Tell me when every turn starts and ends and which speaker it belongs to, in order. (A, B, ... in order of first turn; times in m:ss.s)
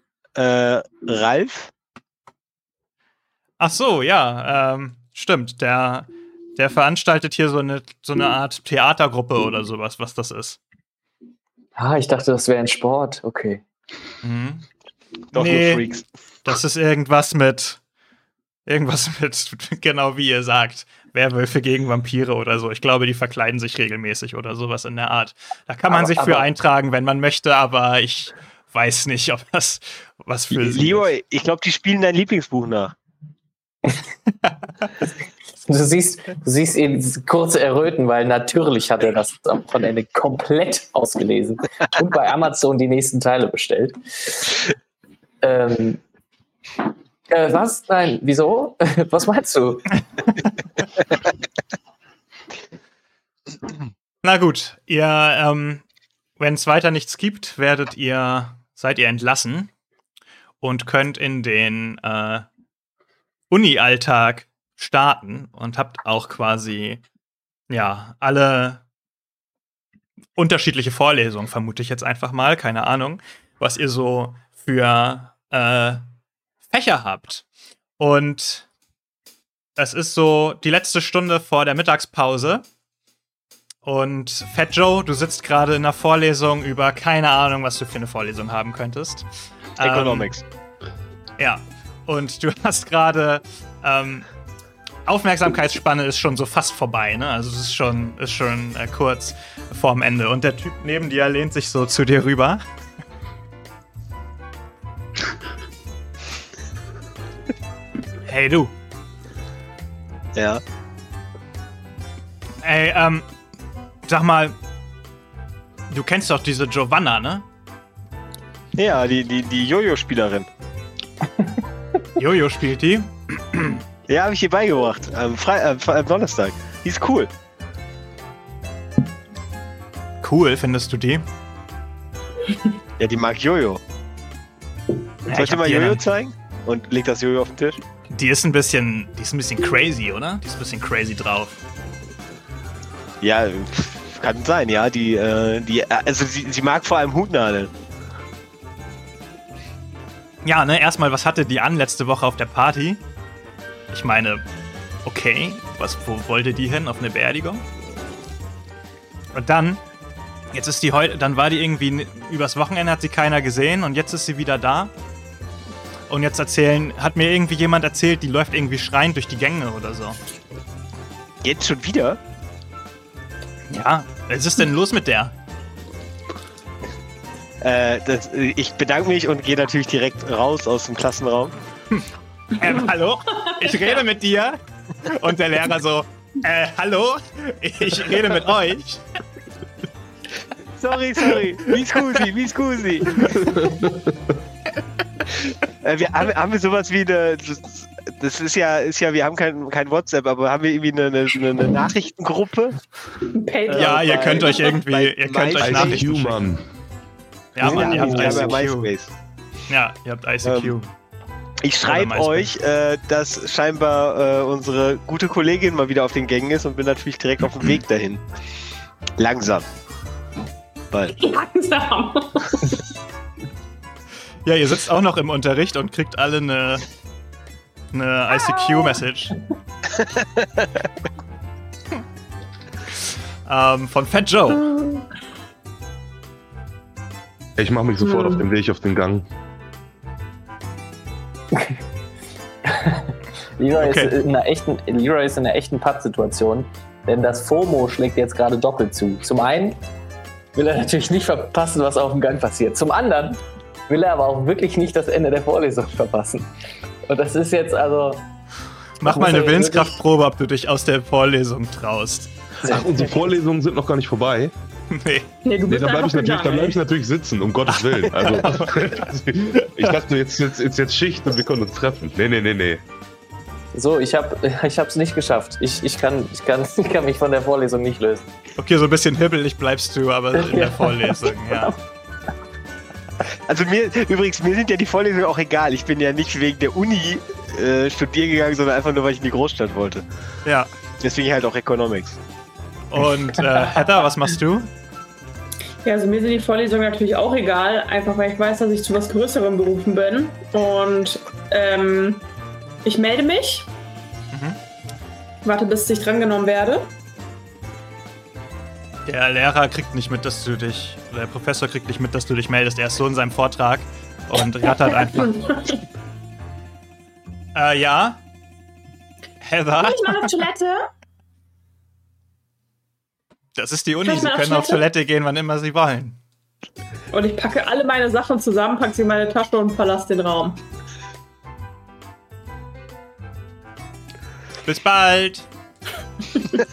0:00.4-0:01.7 A
0:03.6-0:10.6 B
0:11.8-0:13.6 C
0:14.2-0:14.7 B
0:15.3-0:16.1 A
0:15.3-0:15.8 B
0:16.4-0:17.8 B
0:18.6-0:31.1 B
0:25.9-0:26.4 C
0:30.5-0:32.9 A
0:35.6-0:44.6 C
0:45.4-0:46.0 C
0:47.3-0:50.0 C
0:54.2-0:55.8 B
0:56.4-0:59.7 B
1:00.6-1:02.5 B
1:03.5-1:07.0 B
1:07.7-1:08.8 B
1:10.4-1:16.0 B
1:16.7-1:17.4 B
1:18.0-1:18.7 B
1:19.8-1:22.6 B
1:23.8-1:29.3 B
1:29.8-1:30.4 A
1:29.8-1:30.3 B
1:31.4-1:34.3 B
1:35.0-1:42.6 B
1:48.3-1:48.7 B
1:50.3-1:50.6 A
1:52.6-1:53.3 B
1:54.1-1:54.5 B
1:55.9-1:57.4 B
1:58.8-2:00.5 A
2:02.2-2:03.8 B
2:04.1-2:07.3 A
2:10.2-2:11.2 B
2:13.0-2:13.8 A
2:15.3-2:16.0 B
2:15.3-2:17.8 A
2:18.1-2:21.6 B
2:23.2-2:27.7 A
2:30.4-2:33.0 B
2:33.9-2:34.4 B
2:35.0-2:37.6 B
2:39.3-2:39.8 B
2:40.5-2:44.9 B
2:46.1-2:50.2 B
2:51.4-2:52.2 A
2:53.7-2:55.3 B
2:57.6-3:01.6 A
3:02.6-3:09.0 B
3:10.8-3:13.3 A
3:13.3-3:14.2 D
3:15.8-3:22.8 A
3:23.3-3:24.6 E
3:23.7-3:24.6 C
3:23.7-3:26.5 B
3:24.6-3:26.0 A
3:25.6-3:26.6 D
3:27.5-3:28.9 B
3:27.6-3:28.6 C
3:27.6-3:29.1 A
3:29.7-3:30.9 B
3:30.4-3:30.7 A
3:31.6-3:38.2 A
3:31.8-3:32.5 B
3:39.2-3:39.6 A
3:40.9-3:41.1 A
3:41.2-3:42.8 E
3:44.4-3:46.8 B
3:47.9-3:49.4 B
3:49.9-3:50.8 A
3:52.9-3:54.7 B
3:57.6-3:59.3 D
3:58.0-3:58.4 E
4:01.5-4:01.8 C
4:02.6-4:09.8 C
4:03.7-4:04.1 B
4:10.5-4:16.5 C
4:17.1-4:18.2 C
4:19.0-4:22.3 B
4:19.0-4:20.0 C
4:22.6-4:23.2 C
4:22.6-4:24.5 D
4:24.9-4:25.3 B
4:25.4-4:26.8 E
4:25.7-4:32.8 D
4:27.7-4:29.0 B
4:33.7-4:38.3 C
4:38.6-4:41.7 B
4:40.3-4:41.8 C
4:43.4-4:50.0 A
4:50.4-4:50.7 B
4:51.0-4:52.2 A
4:52.9-4:54.7 B
4:55.8-5:02.2 E
5:02.8-5:03.7 E
5:04.3-5:04.6 B
5:05.4-5:06.9 E
5:09.0-5:15.4 B
5:15.0-5:15.8 E
5:17.5-5:18.2 B
5:19.4-5:20.4 B
5:19.8-5:20.9 E
5:23.6-5:26.2 B
5:24.0-5:24.8 E
5:27.1-5:30.6 E
5:34.6-5:35.4 B